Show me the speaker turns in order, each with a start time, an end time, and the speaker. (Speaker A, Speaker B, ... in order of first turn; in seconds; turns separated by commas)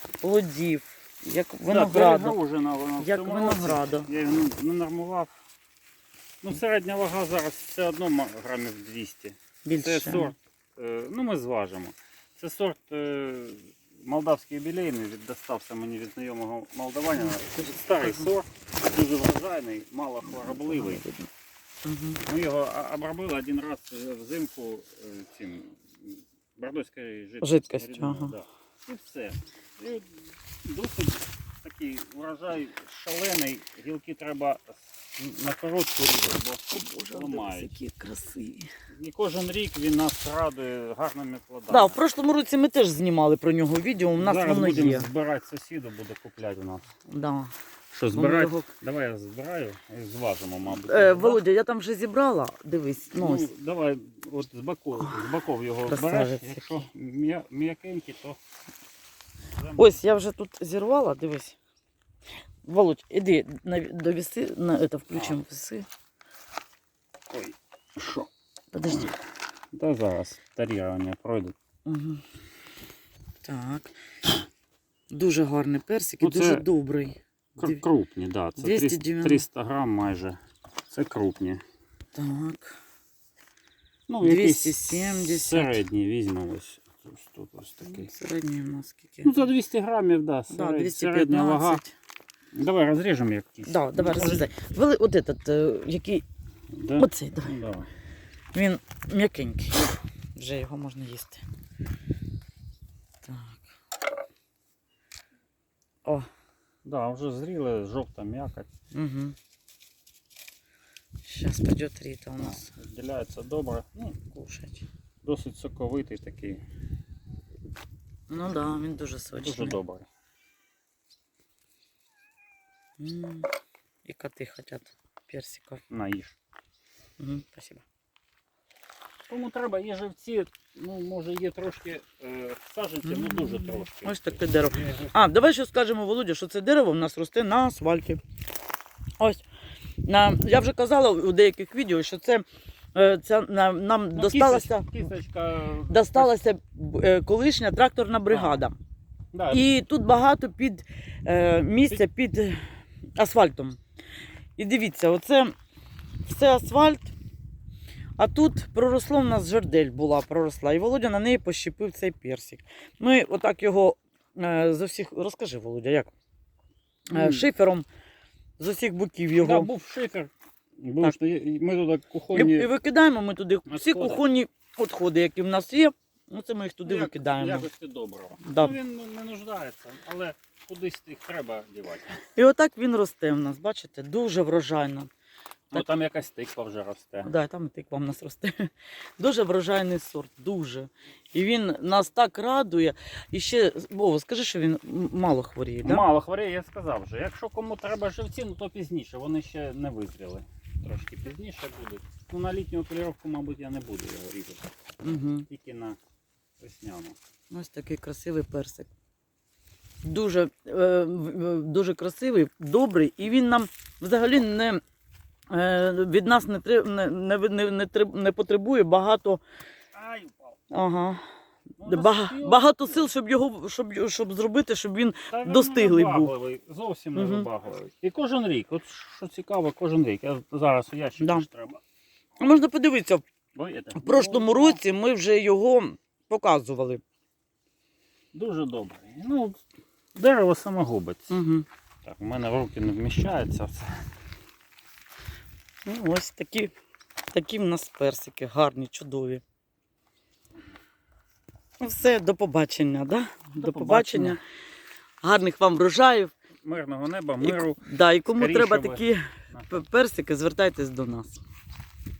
Speaker A: 0.2-2.4, Speaker B: 1.7-5.3, Speaker A: 3.0-4.1, Speaker B: 6.4-21.0, Speaker A: 9.6-10.3, Speaker A: 17.1-18.3, Speaker A: 20.3-21.3, Speaker A: 21.8-22.2, Speaker B: 22.2-37.8, Speaker A: 27.4-28.3, Speaker A: 36.7-38.7, Speaker B: 38.9-42.0, Speaker A: 41.7-45.1, Speaker B: 44.2-46.9, Speaker A: 47.1-47.5, Speaker B: 47.9-51.4, Speaker A: 48.1-48.7, Speaker A: 50.7-53.5, Speaker B: 53.1-58.4, Speaker A: 55.9-56.9, Speaker B: 59.6-60.0, Speaker A: 59.8-61.5, Speaker A: 62.6-65.8, Speaker B: 65.1-65.4, Speaker B: 67.3-68.3, Speaker A: 68.7-69.1, Speaker B: 69.7-71.5, Speaker A: 71.8-72.2, Speaker A: 73.4-74.0, Speaker A: 75.1-77.8, Speaker B: 76.2-76.6, Speaker B: 77.6-80.4, Speaker A: 78.6-79.4, Speaker B: 80.9-81.6, Speaker A: 82.1-82.8, Speaker B: 84.1-88.1, Speaker A: 84.2-85.8, Speaker A: 87.8-89.5, Speaker B: 89.2-91.8, Speaker A: 90.5-91.9, Speaker B: 92.5-94.5, Speaker A: 93.6-96.2, Speaker B: 96.7-97.9, Speaker A: 97.0-97.5, Speaker A: 98.5-101.4, Speaker A: 103.2-103.6, Speaker B: 106.8-108.7, Speaker A: 108.9-109.3, Speaker A: 111.2-112.7, Speaker B: 112.4-114.2, Speaker A: 114.2-114.8, Speaker B: 115.2-116.6, Speaker A: 118.3-119.8, Speaker B: 119.4-120.1, Speaker A: 123.0-123.5, Speaker A: 124.0-125.8, Speaker B: 125.9-126.4, Speaker A: 127.2-127.8, Speaker B: 129.3-135.1, Speaker A: 133.0-138.2, Speaker A: 139.2-139.4, Speaker A: 140.0-144.9, Speaker B: 144.1-146.3, Speaker A: 145.9-148.8, Speaker B: 148.3-148.6, Speaker B: 149.3-149.6, Speaker A: 149.5-153.8, Speaker A: 154.6-155.5, Speaker A: 156.2-157.1, Speaker A: 158.2-166.1, Speaker B: 167.1-167.5, Speaker A: 167.1-167.8, Speaker A: 168.6-169.7, Speaker B: 169.4-172.7, Speaker A: 172.3-177.7, Speaker B: 173.7-174.2, Speaker B: 176.8-182.2, Speaker A: 178.4-178.8, Speaker A: 182.3-185.1, Speaker B: 185.7-187.3, Speaker A: 187.2-196.0, Speaker B: 195.8-204.7, Speaker A: 205.0-205.5, Speaker B: 205.5-206.0, Speaker B: 206.6-207.2, Speaker A: 207.5-208.9, Speaker A: 210.0-214.8, Speaker A: 215.5-219.4, Speaker B: 219.9-220.6, Speaker A: 220.7-221.2, Speaker B: 221.8-223.1, Speaker A: 221.8-226.3, Speaker B: 225.3-231.8, Speaker A: 227.1-227.5, Speaker A: 231.2-231.4, Speaker A: 232.4-233.2, Speaker B: 233.5-234.8, Speaker A: 233.9-237.0, Speaker B: 238.3-239.6, Speaker B: 240.1-241.4, Speaker A: 241.3-241.7, Speaker B: 242.0-244.1, Speaker A: 245.8-246.7, Speaker A: 247.3-249.4, Speaker A: 251.8-254.4, Speaker B: 253.6-254.4, Speaker A: 255.2-256.3, Speaker B: 256.6-259.8, Speaker A: 257.4-261.4